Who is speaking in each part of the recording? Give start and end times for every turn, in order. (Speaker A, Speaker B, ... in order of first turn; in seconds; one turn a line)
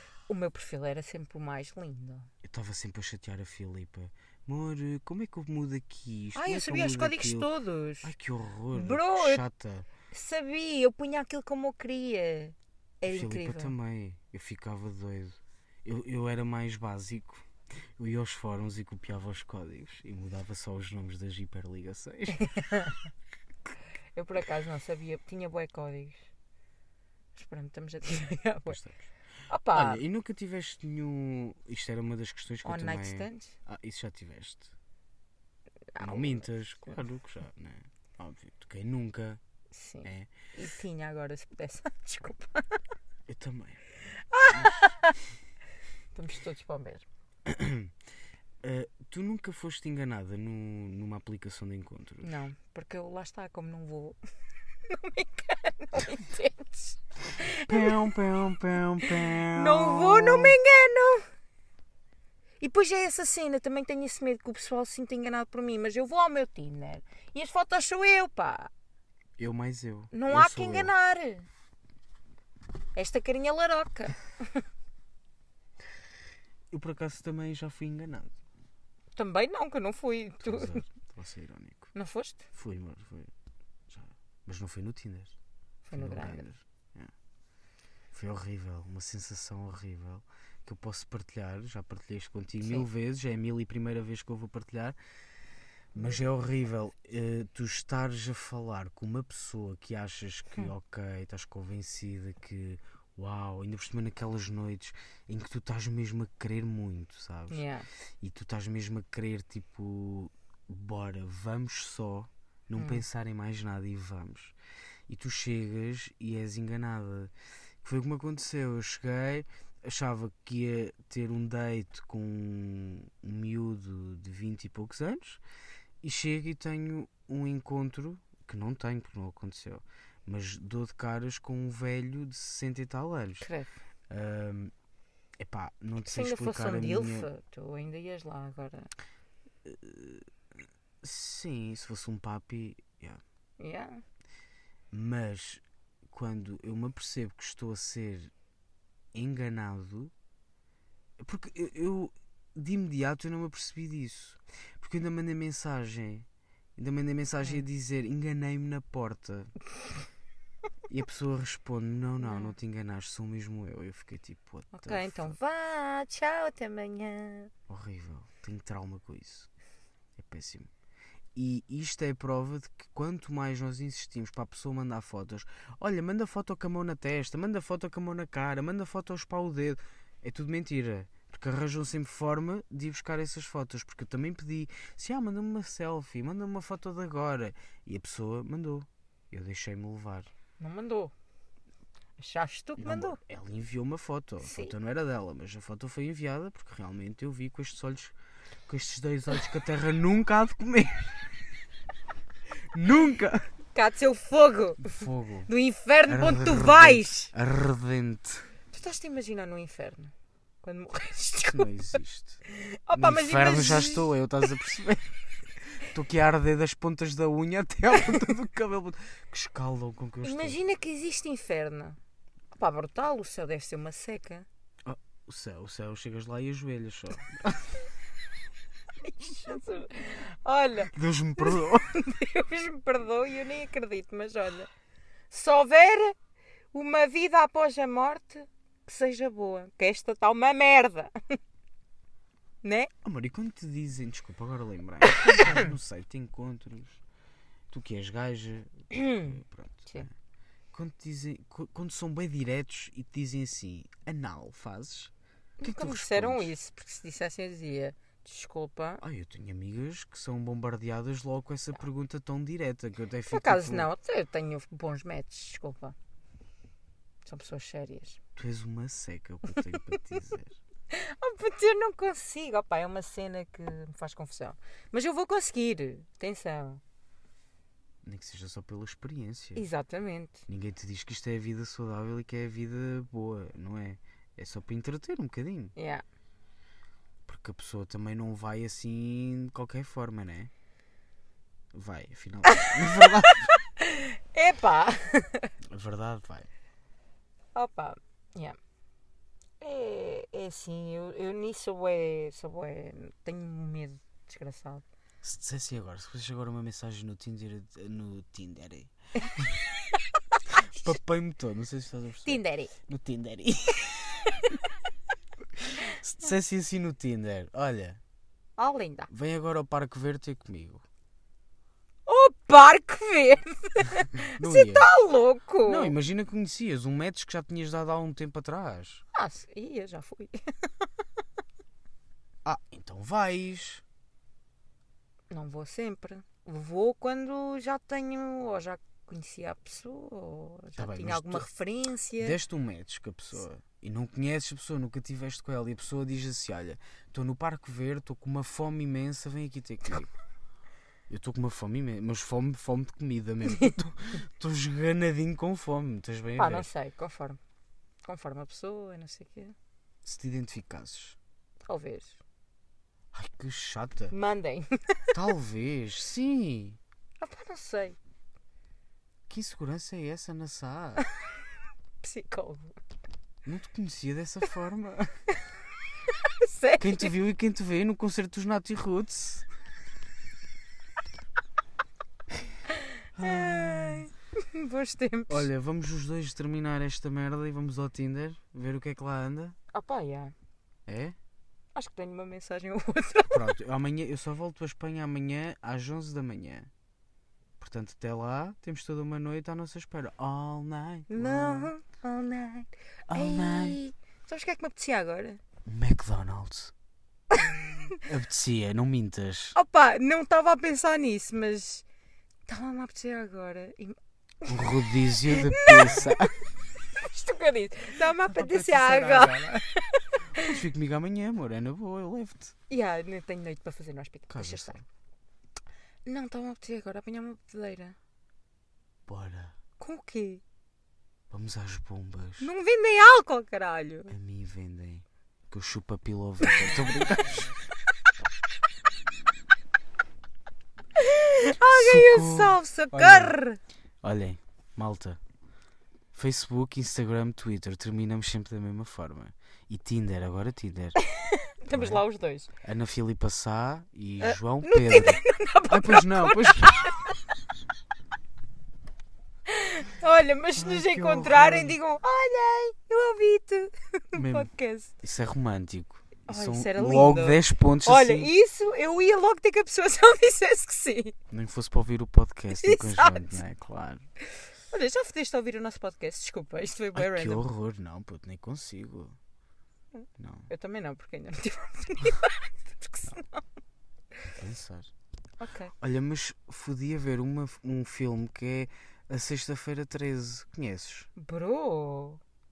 Speaker A: 0.3-2.3
Speaker B: 2.4-7.5
Speaker A: 6.4-8.1
Speaker B: 8.0-9.9
Speaker A: 8.7-9.4
Speaker A: 10.1-13.8
Speaker B: 13.1-17.5
Speaker B: 18.0-22.5
Speaker A: 22.4-23.0
Speaker A: 24.1-26.3
Speaker A: 27.4-28.8
Speaker B: 28.7-29.1
Speaker A: 29.5-30.0
Speaker B: 29.7-34.7
Speaker A: 32.6-33.5
Speaker A: 36.0-37.0
Speaker B: 36.0-39.4
Speaker A: 39.7-42.8
Speaker B: 40.0-40.3
Speaker B: 43.3-43.8
Speaker A: 44.1-45.2
Speaker B: 44.5-44.8
Speaker A: 46.1-47.0
Speaker B: 47.5-47.9
Speaker B: 48.6-52.3
Speaker A: 52.2-54.2
Speaker A: 54.9-58.0
Speaker B: 57.7-60.6
Speaker A: 59.0-61.3
Speaker A: 62.6-68.7
Speaker B: 69.4-70.9
Speaker A: 70.1-71.5
Speaker A: 73.0-74.6
Speaker B: 76.7-78.4
Speaker A: 79.2-80.8
Speaker B: 80.4-81.9
Speaker A: 82.0-82.5
Speaker B: 82.5-83.3
Speaker B: 83.9-85.4
Speaker A: 85.8-86.5
Speaker B: 86.0-87.1
Speaker B: 88.1-95.0
Speaker B: 95.9-107.7
Speaker A: 96.0-96.3
Speaker A: 107.5-107.9
Speaker B: 108.2-114.5
Speaker A: 112.8-113.0
Speaker B: 115.1-117.3
Speaker B: 117.8-125.4
Speaker B: 126.0-133.5
Speaker A: 133.4-133.7
Speaker B: 134.1-134.7
Speaker B: 135.4-137.3
Speaker A: 136.0-138.9
Speaker B: 139.7-140.3
Speaker B: 141.0-143.2
Speaker A: 143.6-144.0
Speaker B: 144.9-148.3
Speaker B: 149.1-150.1
Speaker B: 151.2-159.5
Speaker B: 160.9-165.4
Speaker A: 162.2-162.5
Speaker A: 164.7-167.5
Speaker B: 167.7-169.5
Speaker B: 170.2-170.7
Speaker B: 171.3-190.3
Speaker A: 190.6-191.1
Speaker A: 192.2-193.2
Speaker B: 192.8-198.2
Speaker A: 194.4-194.7
Speaker B: 198.7-201.2
Speaker B: 202.7-203.5
Speaker A: 203.7-207.3
Speaker B: 204.9-205.5
Speaker B: 206.1-208.5
Speaker A: 208.7-211.7
Speaker B: 211.5-212.4
Speaker A: 212.5-214.5
Speaker B: 212.9-215.1
Speaker B: 215.7-220.6
Speaker A: 220.2-222.0
Speaker A: 222.6-224.5
Speaker B: 224.8-227.8
Speaker A: 229.0-234.7
Speaker B: 230.9-231.9
Speaker A: 235.3-236.2
Speaker A: 236.7-241.1
Speaker A: 242.6-242.9
Speaker B: 243.0-247.0
Speaker A: 245.2-245.7
Speaker B: 247.7-250.1
Speaker A: 248.9-249.3
Speaker B: 250.7-256.5
Speaker A: 255.6-259.0
Speaker B: 259.0-263.9
Speaker A: 263.3-266.0
Speaker A: 267.3-268.2
Speaker B: 268.4-270.6
Speaker A: 270.9-276.8
Speaker B: 278.0-279.6
Speaker A: 279.6-280.4
Speaker B: 280.5-285.7
Speaker A: 285.8-286.0
Speaker B: 287.2-290.5
Speaker B: 291.7-293.5
Speaker A: 292.4-295.5
Speaker B: 295.7-296.5
Speaker A: 297.6-298.6
Speaker A: 299.6-304.9
Speaker B: 305.2-309.5
Speaker A: 309.2-310.4
Speaker B: 310.5-314.3
Speaker A: 312.2-312.7
Speaker A: 314.2-314.6
Speaker B: 315.8-318.0
Speaker A: 318.6-319.1
Speaker B: 319.1-320.8
Speaker A: 322.1-325.9
Speaker B: 324.1-324.9
Speaker B: 325.6-329.0
Speaker A: 329.1-330.9
Speaker B: 332.4-333.8
Speaker A: 335.3-342.4
Speaker B: 340.8-341.5
Speaker B: 342.2-350.1
Speaker B: 351.1-356.7
Speaker A: 353.4-353.7
Speaker A: 356.4-357.4
Speaker A: 358.1-359.6
Speaker B: 360.0-361.2
Speaker A: 361.7-362.2
Speaker B: 363.1-364.1
Speaker A: 364.1-365.1
Speaker B: 365.1-366.8
Speaker A: 367.2-368.0
Speaker B: 369.3-371.1
Speaker A: 372.0-372.8
Speaker B: 373.4-375.1
Speaker A: 376.2-377.1
Speaker B: 376.8-379.5
Speaker B: 383.2-384.1
Speaker A: 383.2-385.5
Speaker B: 385.3-389.6
Speaker A: 389.7-390.3
Speaker B: 390.9-391.2
Speaker A: 391.8-393.5
Speaker B: 393.3-396.7
Speaker B: 397.6-401.7
Speaker A: 401.1-405.4
Speaker B: 403.1-403.8
Speaker B: 405.6-406.7
Speaker A: 407.3-408.0
Speaker B: 408.1-409.6
Speaker A: 409.6-411.8
Speaker A: 412.5-416.3
Speaker B: 414.4-416.3
Speaker A: 417.0-420.6
Speaker B: 418.3-419.6
Speaker B: 420.4-422.6
Speaker A: 422.7-424.8
Speaker B: 424.3-424.8
Speaker A: 426.1-428.0
Speaker B: 429.1-429.6
Speaker A: 429.8-430.4
Speaker B: 431.3-432.5
Speaker A: 432.4-434.2
Speaker B: 434.1-437.5
Speaker A: 441.0-443.6
Speaker B: 441.6-443.4
Speaker B: 444.0-445.2
Speaker B: 446.1-451.0
Speaker A: 451.0-452.5
Speaker B: 451.7-452.0
Speaker B: 452.6-456.9
Speaker A: 454.2-457.1
Speaker A: 459.5-465.0
Speaker B: 460.6-461.8
Speaker B: 464.1-464.5
Speaker B: 465.0-468.3
Speaker A: 466.3-471.2
Speaker B: 471.3-474.0
Speaker A: 472.5-473.4
Speaker A: 474.7-477.4
Speaker B: 476.9-479.2
Speaker A: 479.9-483.5
Speaker B: 480.2-480.5
Speaker B: 484.4-484.9
Speaker A: 485.4-485.7
Speaker B: 485.8-491.1
Speaker A: 491.2-492.2